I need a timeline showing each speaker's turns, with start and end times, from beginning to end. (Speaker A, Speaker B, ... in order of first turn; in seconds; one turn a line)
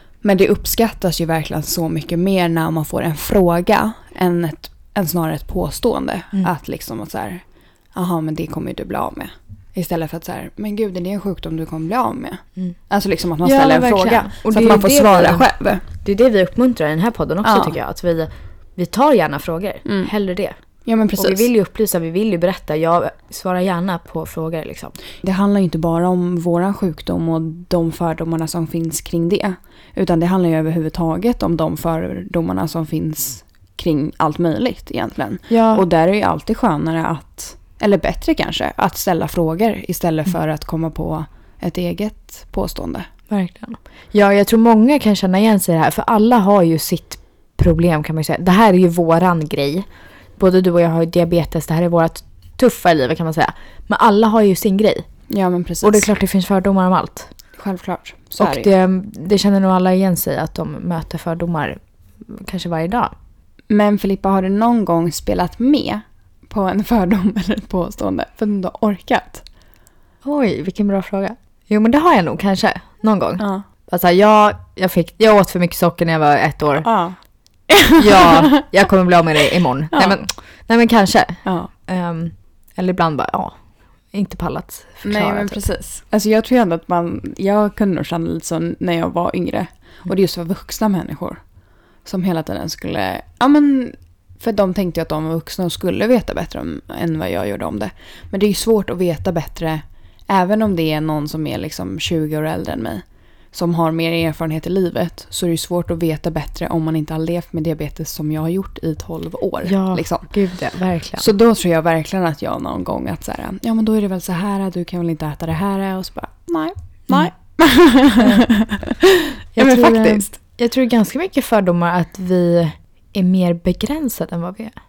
Speaker A: 0.2-7.4
Speaker A: 8.0-15.8
Speaker B: 13.4-15.5
Speaker B: 16.0-20.6
Speaker A: 17.4-17.8
Speaker A: 19.9-20.1
Speaker A: 20.9-21.5
Speaker B: 21.2-25.0
Speaker A: 25.2-43.1
Speaker B: 35.5-35.9
Speaker B: 43.3-49.9
Speaker B: 50.4-55.1
Speaker A: 55.3-56.1
Speaker B: 55.8-57.3
Speaker A: 57.5-58.7
Speaker B: 58.4-63.1
Speaker A: 63.7-69.4
Speaker B: 70.2-76.9
Speaker A: 73.4-73.7
Speaker A: 76.8-77.2
Speaker A: 77.7-78.6
Speaker B: 78.0-83.6
Speaker A: 79.9-80.2
Speaker A: 81.5-81.7
Speaker B: 84.1-85.7
Speaker A: 85.0-91.4
Speaker A: 92.1-110.3
Speaker B: 109.7-111.3
Speaker A: 111.2-120.4
Speaker B: 119.5-124.7